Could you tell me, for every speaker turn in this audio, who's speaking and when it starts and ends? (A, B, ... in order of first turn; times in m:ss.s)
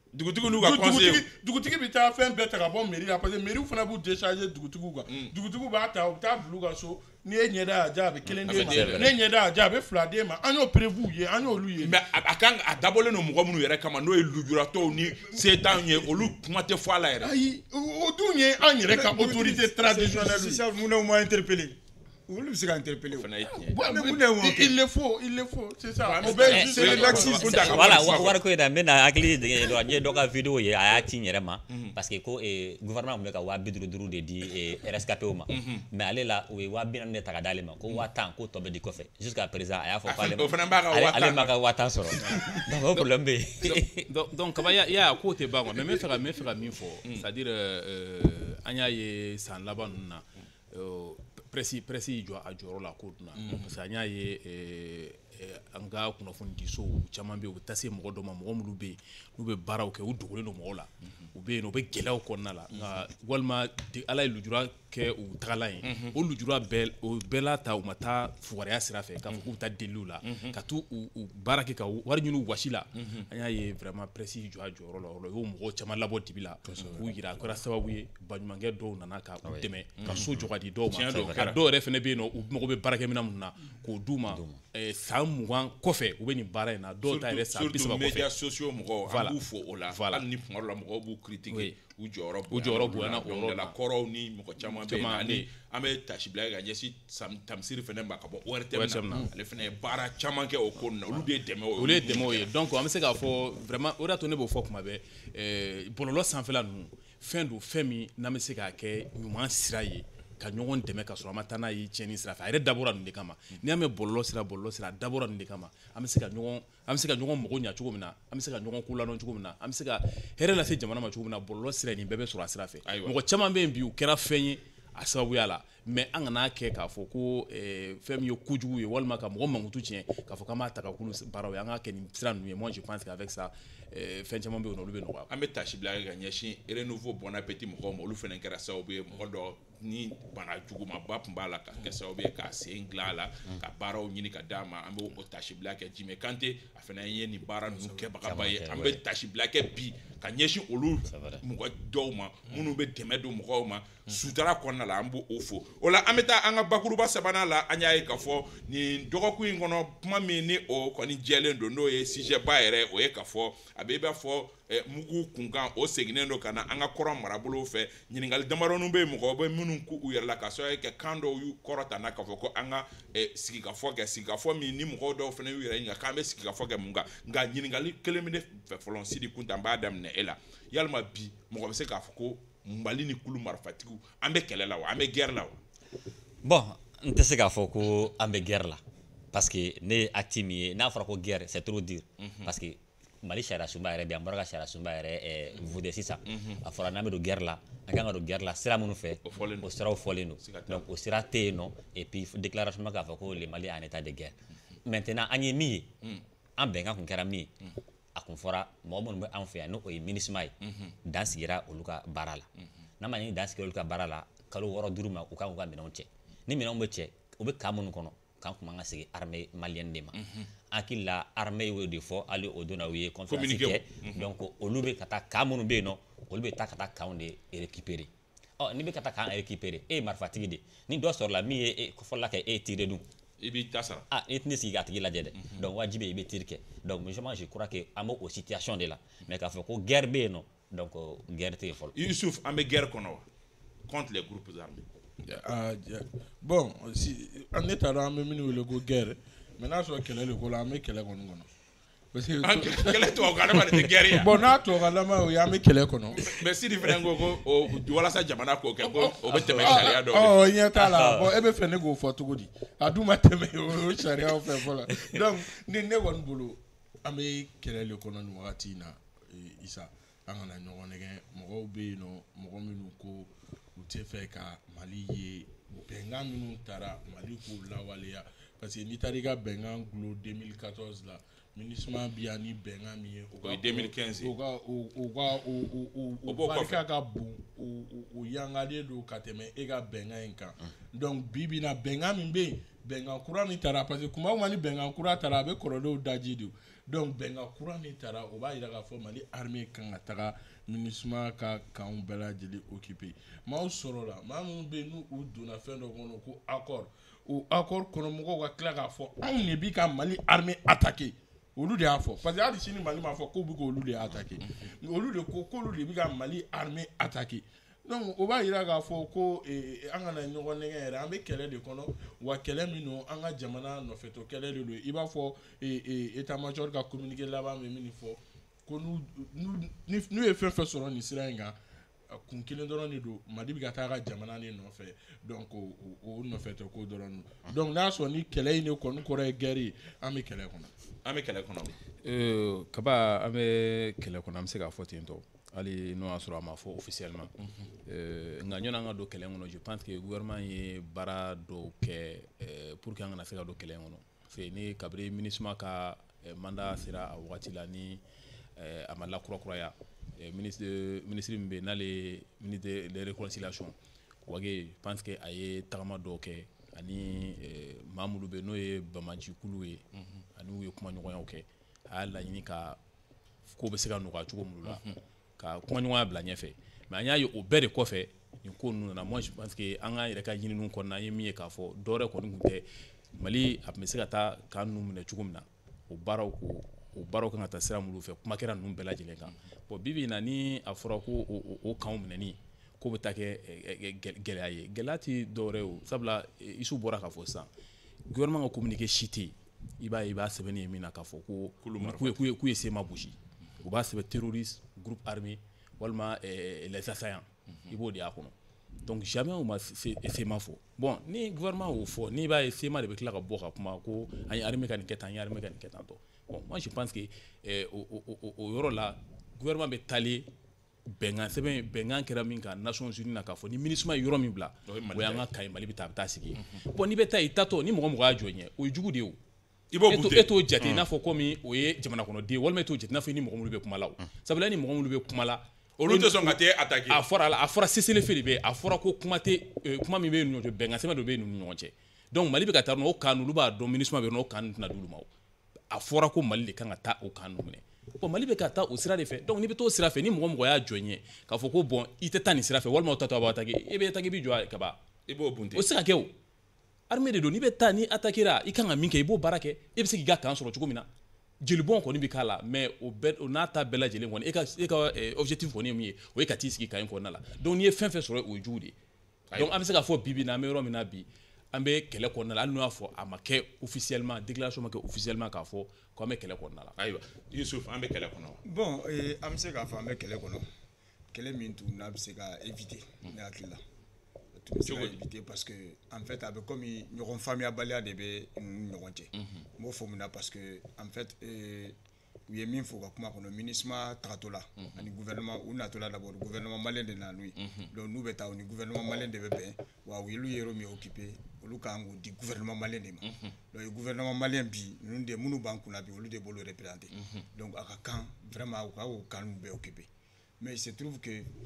0:00.1-0:01.2 A
0:00.5-0:12.0 B
0:05.1-0:05.3 A
0:08.3-0:09.2 C
0:08.4-0:09.2 A
0:11.8-0:17.3 A
0:17.2-0:20.6 B
0:18.9-0:24.8 D
0:23.1-0:23.8 A
0:23.5-0:28.0 B
0:26.0-0:28.4 A
0:26.2-0:44.1 C
0:26.4-0:28.3 D
0:35.5-0:35.9 A
0:40.1-0:41.6 A
0:42.1-0:42.5 A
0:43.6-1:28.3 E
0:53.4-0:53.6 B
1:05.8-1:06.2 A
1:10.2-1:10.5 A
1:13.0-1:13.3 A
1:19.4-1:20.4 C
1:20.0-1:20.3 A
1:20.9-1:21.6 A
1:21.1-1:21.5 C
1:24.3-1:24.6 C
1:27.0-1:42.5 A
1:29.1-1:29.4 E
1:29.9-1:30.2 E
1:31.5-1:31.8 E
1:32.5-1:33.8 E
1:34.7-1:35.5 E
1:38.7-1:39.3 E
1:41.8-2:15.3 E
2:02.9-2:03.1 A
2:15.3-3:05.6 A
2:28.2-2:29.0 C
2:31.1-2:31.4 C
3:06.4-3:08.8 C
3:09.3-3:24.4 C
3:12.2-3:12.5 A
3:16.3-3:16.6 A
3:19.2-3:19.7 A
3:20.4-3:20.9 A
3:24.9-3:25.9 C
3:26.6-3:27.5 C
3:28.2-3:30.5 C
3:30.7-3:30.9 A
3:31.0-3:32.5 C
3:33.0-3:40.2 C
3:40.2-3:40.5 A
3:40.7-3:53.0 C
3:43.3-3:44.3 A
3:53.4-3:54.1 A
3:54.1-4:02.0 C
4:01.9-4:03.3 A
4:03.9-4:04.8 A
4:05.2-4:11.5 B
4:12.1-4:16.4 B
4:12.4-4:14.4 A
4:16.1-4:20.4 A
4:18.8-5:31.6 B
4:19.3-4:20.0 C
4:20.7-4:21.3 C
4:43.4-4:44.3 A
4:46.3-4:46.8 A
5:32.1-5:40.7 B
5:41.0-5:41.8 A
5:42.0-5:47.3 E
5:47.9-5:58.0 E
5:58.6-6:03.8 E
6:04.3-6:09.8 E
6:10.4-6:12.8 E
6:13.5-6:14.8 E
6:14.7-6:15.0 A
6:15.4-6:37.5 E
6:38.1-6:48.3 E
6:41.6-6:42.2 A
6:48.8-7:00.3 E
7:00.9-7:09.2 E
7:04.7-7:05.2 A
7:09.7-7:10.3 A
7:09.9-7:16.4 E
7:15.8-7:17.0 A
7:16.9-7:25.1 E
7:25.7-7:34.8 E
7:35.1-7:35.7 A
7:35.6-7:36.1 E
7:36.9-7:40.9 E
7:41.4-7:48.7 E
7:49.4-7:56.7 E
7:56.8-7:58.4 A
7:58.4-8:00.5 D
8:01.1-8:03.6 D
8:04.4-8:29.9 D
8:04.6-8:05.0 A
8:09.2-8:09.4 A
8:17.4-8:17.7 A
8:23.0-8:23.3 A
8:26.9-8:27.2 A
8:30.4-8:31.3 D